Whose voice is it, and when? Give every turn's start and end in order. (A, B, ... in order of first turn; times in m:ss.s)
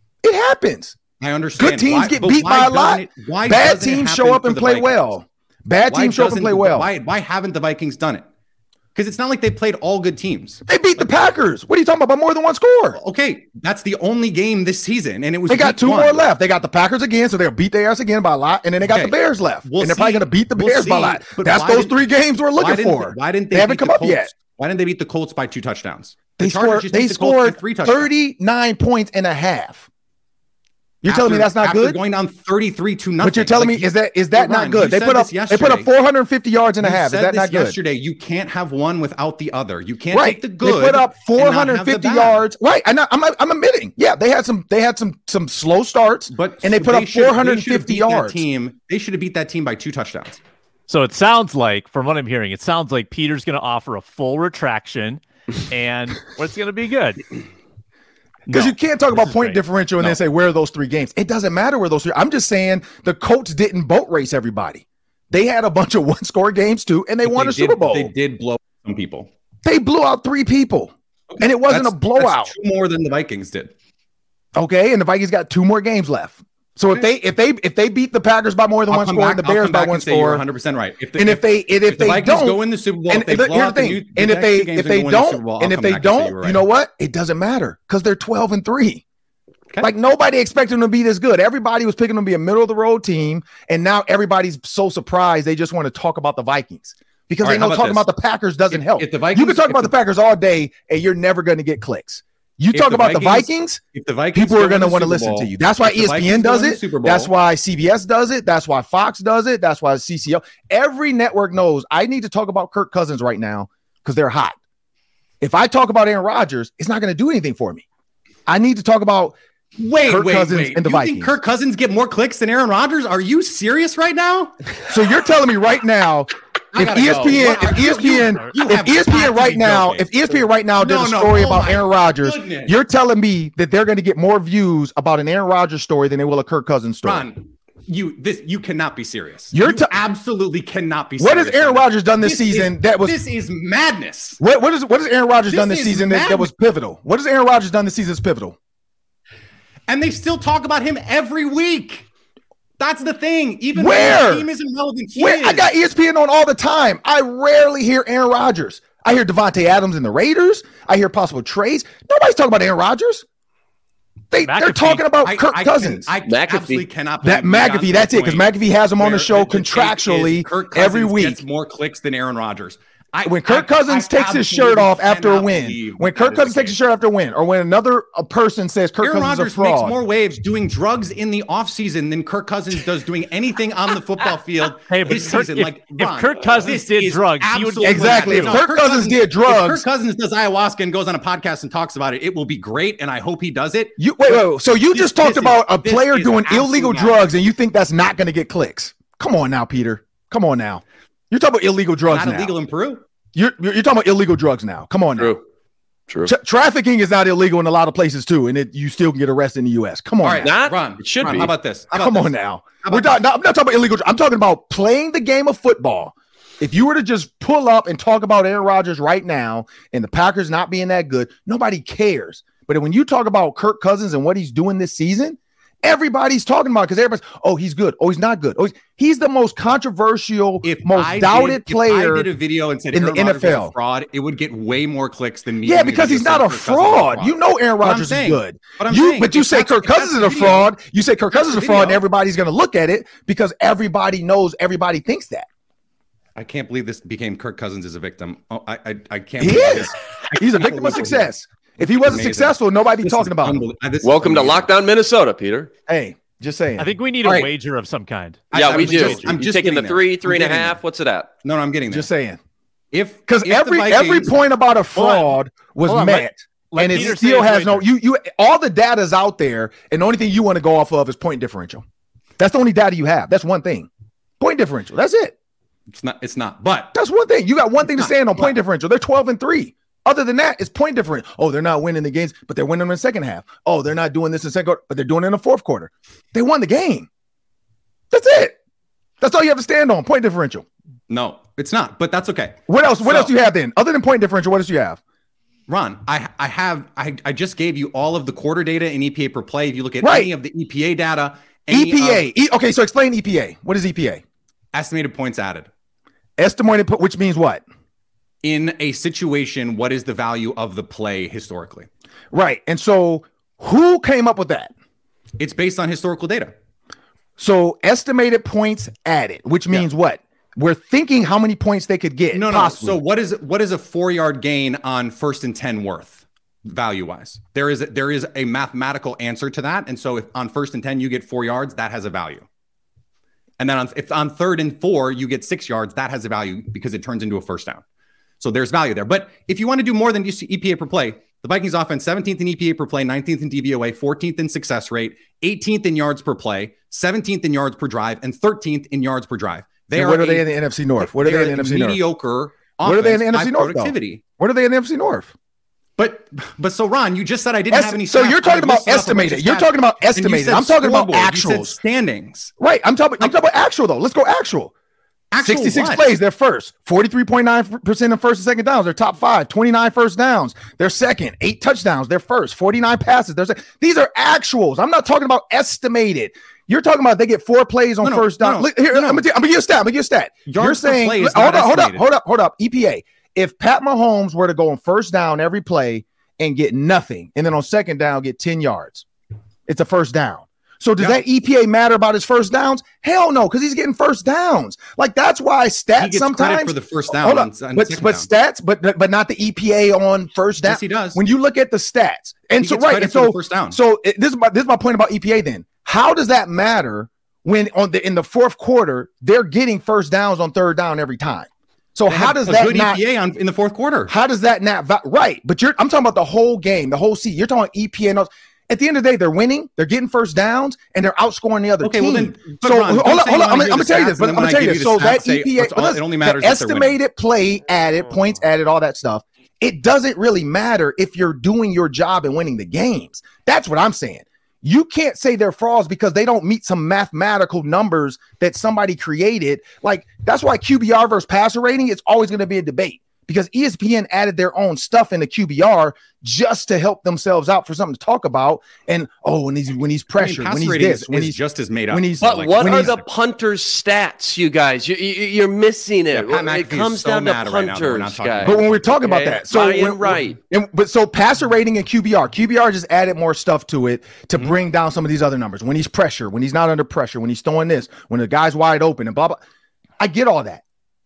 0:00.2-0:01.0 A
0:01.2-0:05.0 B
0:01.6-0:06.9 A
0:05.8-0:08.2 B
0:08.9-0:10.6 B
0:10.7-0:13.0 A
0:13.0-0:16.3 B
0:15.5-0:24.3 A
0:18.9-0:21.9 B
0:22.6-0:28.1 B
0:26.4-0:29.9 A
0:31.0-0:32.0 A
0:31.0-0:35.9 B
0:33.2-0:37.8 A
0:36.8-0:42.4 B
0:40.1-0:48.4 A
0:46.3-0:50.4 B
0:50.9-0:57.2 C
0:58.5-0:59.6 C
0:58.5-1:08.1 A
1:07.2-1:09.3 B
1:09.6-1:12.5 A
1:11.3-1:13.7 B
1:14.5-1:20.4 A
1:18.9-1:26.6 B
1:21.2-1:29.0 A
1:29.8-1:43.8 A
1:37.4-1:38.1 B
1:38.7-1:39.9 B
1:42.7-1:47.3 B
1:44.3-1:54.6 A
1:55.4-1:57.8 A
1:58.5-1:59.4 A
1:59.8-2:04.5 B
2:00.0-2:01.4 A
2:04.9-2:17.2 A
2:06.7-2:10.1 B
2:10.8-2:12.8 B
2:17.0-2:24.4 B
2:19.5-2:19.9 A
2:21.2-2:23.2 A
2:24.4-2:28.6 A
2:25.5-2:26.5 B
2:29.9-2:32.0 B
2:32.8-2:35.7 B
2:33.7-2:34.5 A
2:35.2-2:43.2 A
2:44.3-2:46.1 A
2:44.4-2:45.0 C
2:45.2-2:56.8 B
2:46.2-2:46.8 D
2:47.2-2:51.4 A
2:53.2-3:00.0 A
2:59.0-3:17.3 B
3:04.9-3:08.6 C
3:07.8-3:09.8 A
3:14.0-3:22.5 A
3:22.1-3:23.0 B
3:23.3-3:25.4 A
3:26.2-3:30.5 A
3:30.2-3:32.3 B
3:30.4-3:31.5 D
3:31.2-3:52.3 A
3:32.8-3:33.1 B
3:50.6-4:00.7 B
3:52.9-3:53.7 A
3:55.6-4:05.5 A
4:01.4-4:02.0 B
4:06.3-4:11.3 B
4:09.4-4:13.6 A
4:11.8-4:14.7 B
4:14.0-4:15.7 D
4:15.9-4:16.9 A
4:16.8-4:19.3 C
4:18.5-4:20.8 B
4:18.5-4:21.3 D
4:21.4-4:22.1 B
4:21.9-4:22.4 A
4:22.9-4:24.3 B
4:23.3-4:31.8 A
4:24.9-4:25.3 C
4:25.8-4:27.8 C
4:32.4-4:33.9 A
4:34.4-4:35.3 A
4:35.9-4:36.9 B
4:36.9-4:47.1 A
4:37.9-4:38.5 B
4:48.1-4:48.6 A
4:49.2-4:50.6 A
4:51.1-4:53.3 B
4:52.7-4:55.0 A
4:55.7-5:02.3 B
5:00.0-5:00.3 A
5:01.7-5:04.2 A
5:04.7-5:05.7 B
5:06.4-5:07.6 A
5:08.4-5:11.9 B
5:12.3-5:14.7 A
5:15.4-5:16.5 B
5:17.4-5:23.0 A
5:22.3-5:32.4 B
5:33.6-5:37.8 B
5:38.4-5:50.4 B
5:49.9-5:52.0 A
5:51.0-5:54.2 B
5:52.8-5:55.3 A
5:56.0-6:02.5 B
5:57.7-6:01.8 A
6:02.6-6:04.7 A
6:05.3-6:06.1 B
6:05.4-6:29.0 A
6:18.0-6:19.2 B
6:20.5-6:22.1 B
6:29.7-6:53.0 A
6:36.0-6:38.3 B
6:40.6-6:41.2 B
6:42.6-6:43.8 B
6:52.1-6:54.1 B
6:54.1-7:31.4 A
7:01.8-7:07.0 B
7:30.2-7:33.0 B
7:31.9-7:33.0 A
7:32.2-7:40.4 D
7:36.1-7:38.7 B
7:38.4-7:49.4 A
7:50.0-7:50.6 A